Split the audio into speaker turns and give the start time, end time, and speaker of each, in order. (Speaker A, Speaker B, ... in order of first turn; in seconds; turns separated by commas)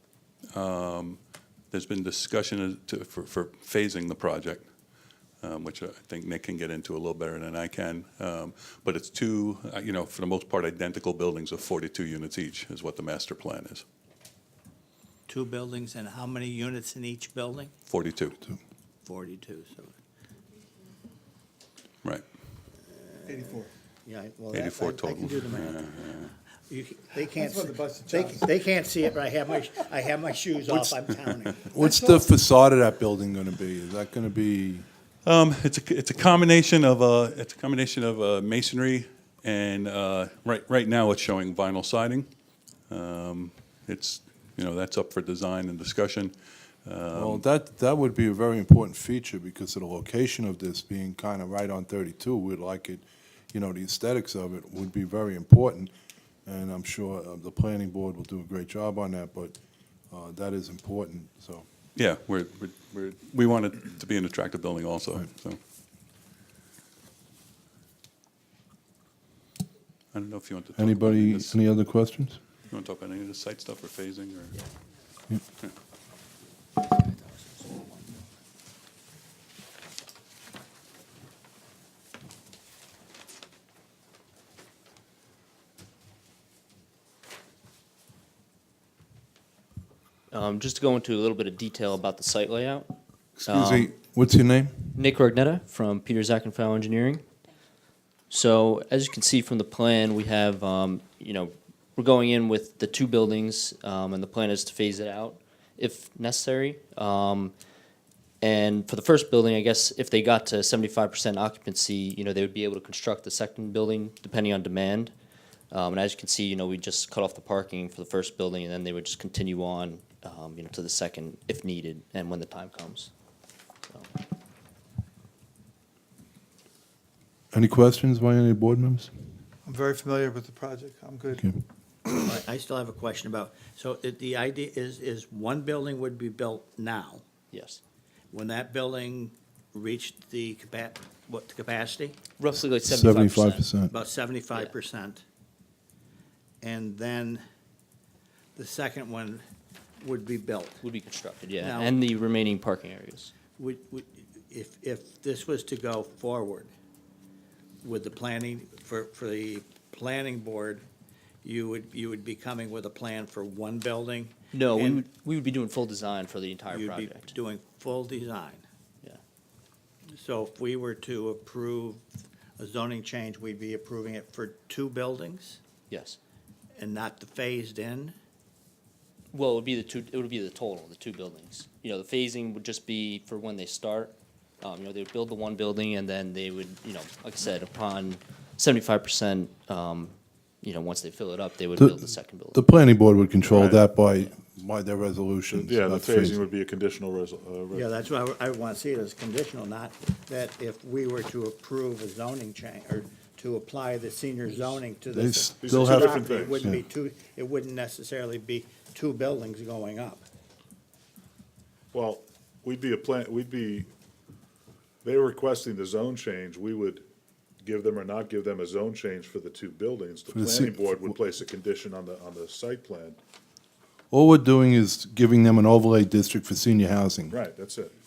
Speaker A: 0.5-1.2, Speaker A: 1.7-4.7, Speaker A: 5.4-13.8, Speaker B: 15.3-17.7, Speaker A: 17.9-18.4, Speaker B: 19.0-19.9, Speaker B: 22.9-25.9, Speaker C: 23.2-23.7, Speaker A: 24.5-26.3, Speaker B: 26.7-31.7, Speaker C: 27.3-28.5, Speaker D: 31.7-34.9, Speaker C: 31.8-32.2, Speaker A: 35.2-42.3, Speaker A: 42.9-47.5, Speaker D: 47.1-55.9, Speaker D: 56.5-59.5, Speaker D: 60.1-61.6, Speaker A: 62.0-65.6, Speaker A: 70.1-71.6, Speaker D: 70.8-72.4, Speaker A: 72.7-74.6, Speaker E: 90.3-92.9, Speaker D: 93.4-95.0, Speaker E: 93.5-93.9, Speaker E: 94.9-97.2, Speaker E: 98.3-107.5, Speaker E: 108.4-115.1, Speaker E: 115.7-123.1, Speaker D: 127.5-129.1, Speaker C: 129.7-131.4, Speaker B: 132.2-137.2, Speaker E: 137.5-137.8, Speaker B: 138.3-142.2, Speaker E: 142.4-143.9, Speaker D: 142.6-143.9, Speaker B: 143.9-145.2, Speaker B: 146.6-147.4, Speaker B: 148.5-149.4, Speaker B: 150.0-150.8, Speaker E: 150.8-153.3, Speaker B: 151.6-151.9, Speaker B: 153.6-156.7, Speaker B: 157.8-160.8, Speaker B: 161.4-165.0, Speaker E: 164.5-167.4, Speaker B: 166.7-168.7, Speaker B: 170.1-172.0, Speaker B: 172.6-175.6, Speaker E: 175.9-176.2, Speaker B: 176.7-178.1, Speaker E: 179.3-192.6, Speaker D: 191.8-196.4, Speaker F: 193.5-193.9, Speaker F: 195.5-198.0, Speaker B: 197.7-210.2, Speaker D: 205.1-206.8, Speaker F: 205.6-206.7, Speaker F: 211.9-213.9, Speaker F: 215.0-217.0, Speaker F: 217.6-223.2, Speaker D: 220.3-221.1, Speaker D: 224.1-227.4, Speaker F: 227.3-227.9